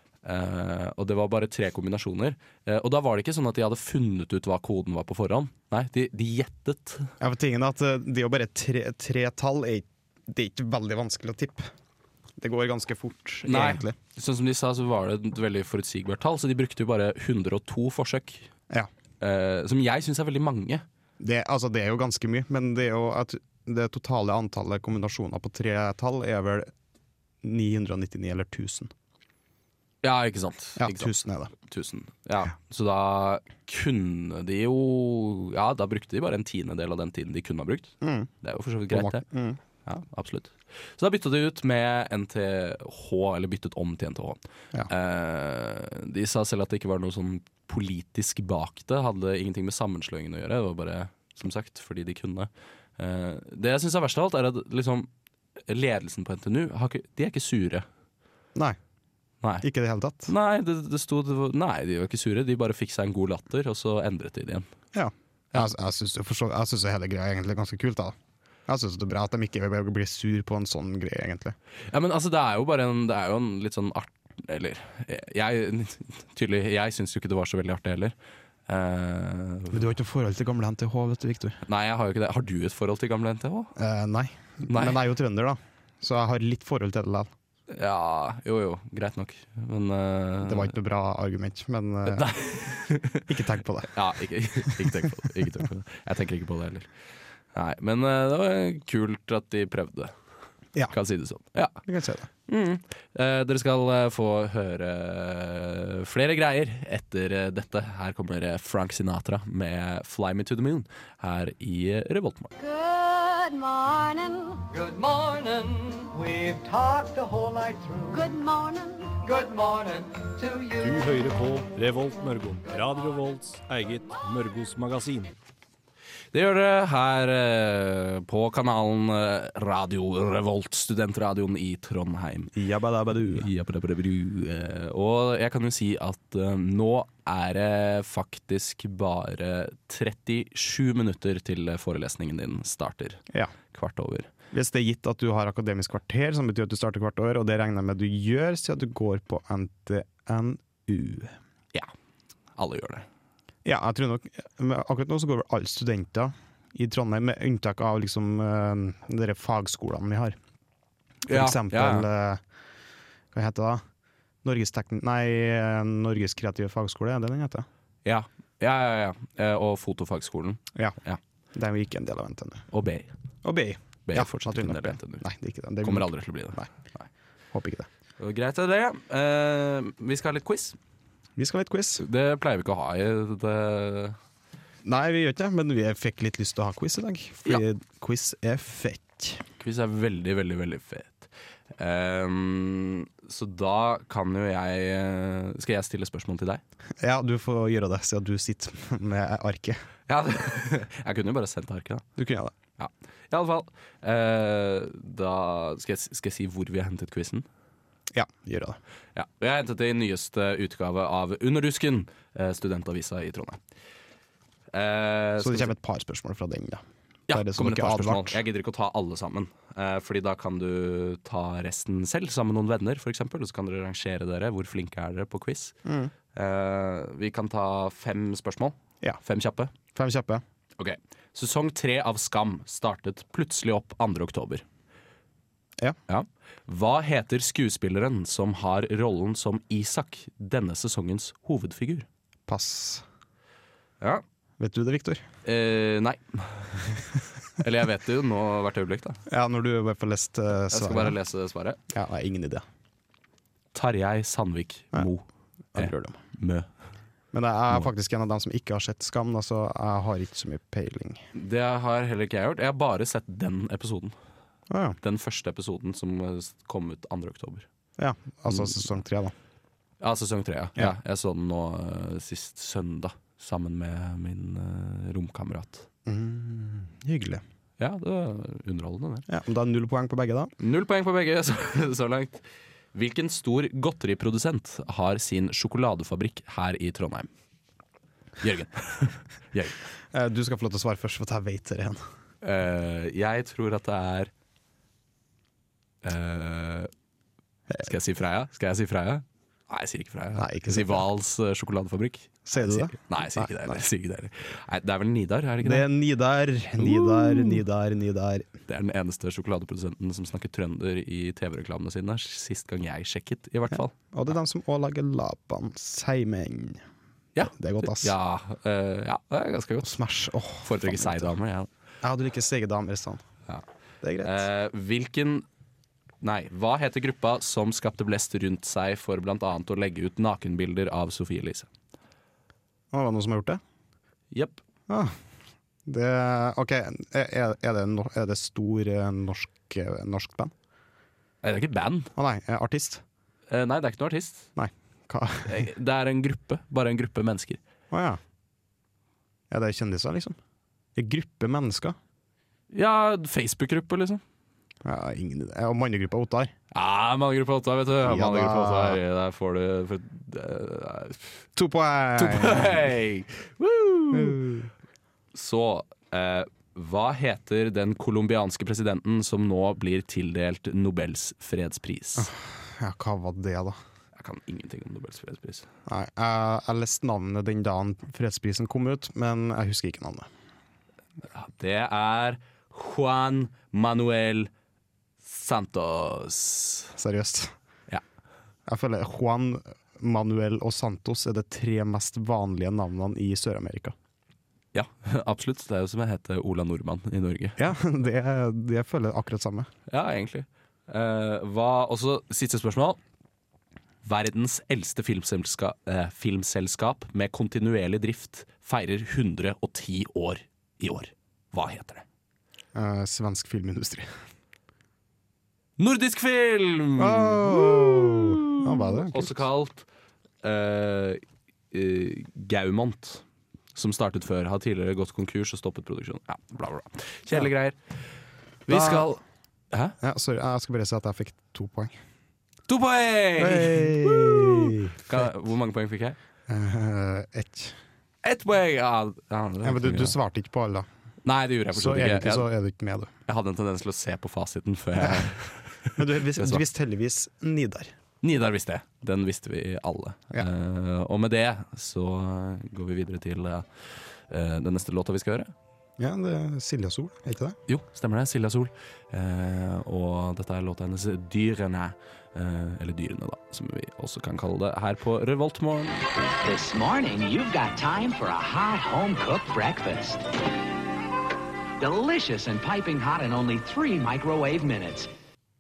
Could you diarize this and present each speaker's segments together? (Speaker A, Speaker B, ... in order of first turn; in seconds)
Speaker A: 0.2-7.1, 13.4-18.5, 19.2-20.9, 30.0-39.2, 39.9-55.1, 55.7-57.9, 60.3-64.7, 71.9-78.2, 78.7-79.8, 81.7-83.7, 84.7-85.0, 87.7-90.7, 92.1-93.3, 93.9-96.9, 97.5-100.1, 100.9-101.8, 102.5-112.5, 126.3-132.5, 133.3-144.3, 152.6-153.1, 161.3-162.1, 168.1-171.2, 172.7-173.1, 174.1-175.3, 175.8-177.1, 178.2-180.8, 182.0-184.2, 189.6-196.6, 200.1-202.1, 202.8-207.5, 209.2-213.6, 214.7-215.7, 217.3-225.8, 226.3-229.7, 230.8-234.7, 236.1-242.1, 245.4-247.0, 247.6-249.2, 250.7-251.8, 253.7-256.7, 261.3-264.1, 265.0-267.7, 268.5-268.9, 270.0-275.9, 277.8-279.2, 280.6-287.3, 288.4-289.8, 292.4-294.3, 296.0-296.9, 297.8-305.9, 306.8-307.6, 308.7-313.9, 317.4-320.0, 320.6-321.7, 324.2-325.4, 326.2-331.7, 334.3-334.6, 341.4-342.1, 343.5-344.5, 345.5-347.6, 352.7-354.2, 356.7-361.4, 362.2-364.5, 365.3-372.3, 374.2-375.7, 381.3-384.5, 385.2-386.9, 394.7-397.6, 399.9-403.0, 404.0-412.0, 415.8-419.9, 420.4-423.2, 423.8-427.8, 428.7-430.0, 432.7-436.2, 438.2-440.2, 441.2-442.5, 443.3-446.6, 448.2-453.7, 454.3-455.5, 457.7-466.0
Speaker B: 7.2-11.7, 12.4-14.0, 21.2-26.7, 27.4-28.9, 30.8-31.5, 38.0-38.3, 38.9-39.6, 59.6-60.3, 64.9-68.2, 68.7-71.6, 79.7-81.6, 83.8-87.3, 90.4-92.3, 93.3-93.9, 94.7-95.2, 101.8-102.3, 132.6-133.5, 144.5-151.3, 153.7-160.4, 161.3-162.4, 163.3-163.8, 164.4-167.7, 171.5-172.7, 173.4-176.7, 177.5-177.9, 181.4-182.0, 184.8-189.4, 197.0-199.8, 202.2-202.5, 208.1-208.8, 215.4-218.4, 225.8-226.1, 229.9-230.4, 242.5-243.1, 244.6-245.2, 249.3-251.2, 251.9-252.7, 255.8-256.2, 257.3-261.2, 264.7-265.0, 268.0-269.3, 276.1-277.4, 279.3-280.5, 290.1-292.0, 300.4-301.1, 302.5-303.8, 305.6-308.5, 313.7-316.8, 317.5-318.1, 319.8-321.4, 322.0-323.2, 324.0-324.5, 332.9-333.6, 334.9-335.2, 335.9-340.5, 342.2-343.0, 344.6-345.6, 347.9-348.2, 349.5-350.4, 351.0-352.0, 354.8-356.5, 358.0-359.0, 361.6-362.9, 364.1-364.7, 372.2-373.8, 375.9-380.3, 387.0-387.6, 388.7-393.9, 397.6-399.7, 412.7-414.1, 417.0-419.4, 428.7-429.1, 430.0-431.9, 433.4-435.2, 436.5-437.8, 439.6-440.9, 441.7-443.1, 446.0-447.9, 456.0-457.6
Speaker C: 112.6-114.7, 118.1-119.6
Speaker D: 114.7-118.1, 119.4-120.7
Speaker E: 120.8-125.3
Speaker F: 466.4-470.3, 471.8-475.1